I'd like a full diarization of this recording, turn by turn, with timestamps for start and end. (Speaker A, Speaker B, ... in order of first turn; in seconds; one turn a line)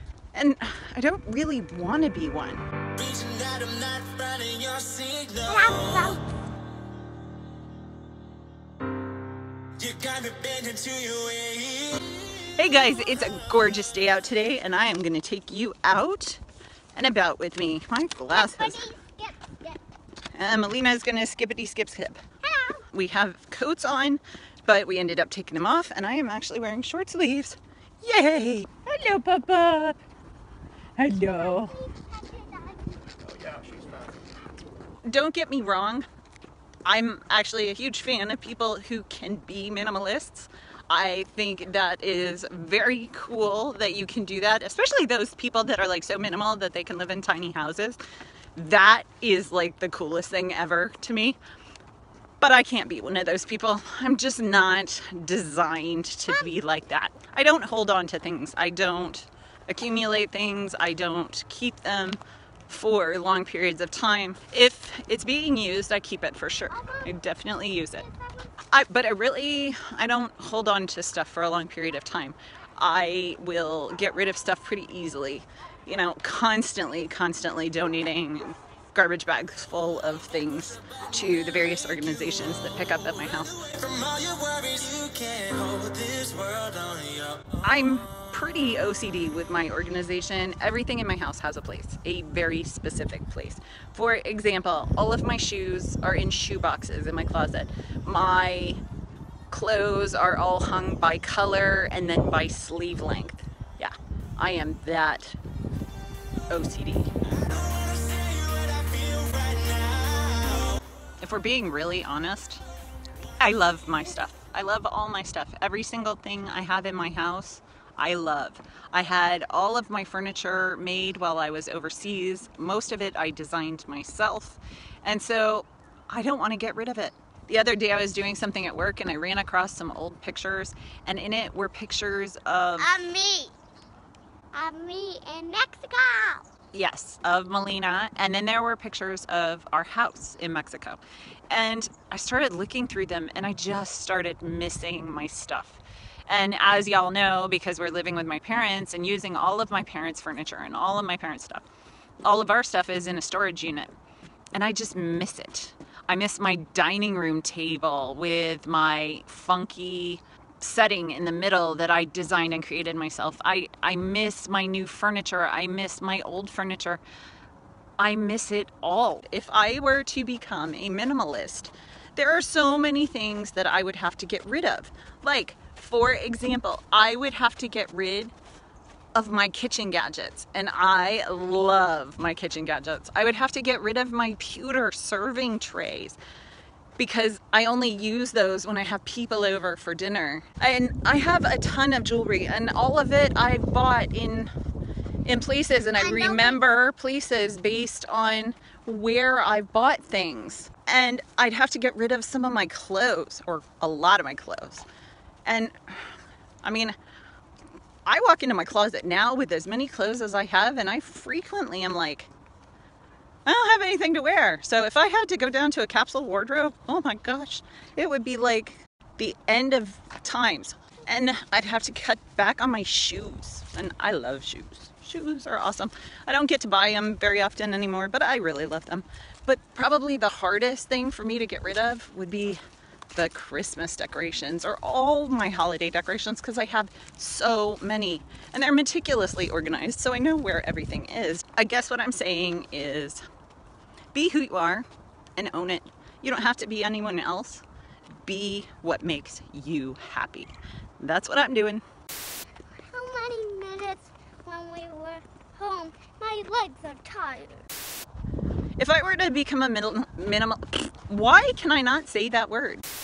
Speaker A: 0.3-2.6
Speaker B: 3.0-5.3
Speaker C: 5.4-6.2
Speaker B: 9.8-12.0
Speaker A: 12.5-16.4
Speaker A: 16.9-18.8
Speaker C: 18.3-19.8
Speaker A: 20.3-22.2
Speaker C: 22.4-22.8
Speaker A: 22.9-30.0
Speaker A: 31.0-31.8
Speaker C: 31.2-33.6
Speaker A: 35.0-36.0
Speaker A: 36.8-48.0
Speaker A: 48.5-51.4
Speaker A: 52.4-68.0
Speaker C: 66.7-67.1
Speaker C: 68.0-68.5
Speaker A: 68.7-83.7
Speaker B: 83.7-87.5
Speaker A: 87.6-98.8
Speaker A: 99.5-105.4
Speaker A: 106.5-107.1
Speaker B: 107.5-110.7
Speaker A: 111.2-112.6
Speaker A: 113.4-133.0
Speaker C: 132.8-133.5
Speaker C: 134.5-136.5
Speaker A: 136.7-151.7
Speaker A: 152.2-153.9
Speaker A: 154.5-167.0
Speaker A: 168.0-178.3
Speaker A: 179.1-186.2
Speaker A: 187.0-194.5
Speaker A: 195.2-204.8
Speaker C: 196.0-196.6
Speaker A: 205.4-206.9
Speaker A: 208.1-212.3
Speaker A: 213.4-232.6
Speaker A: 233.1-243.2
Speaker A: 244.1-247.6
Speaker A: 248.2-251.8
Speaker C: 252.9-257.7
Speaker A: 258.8-262.8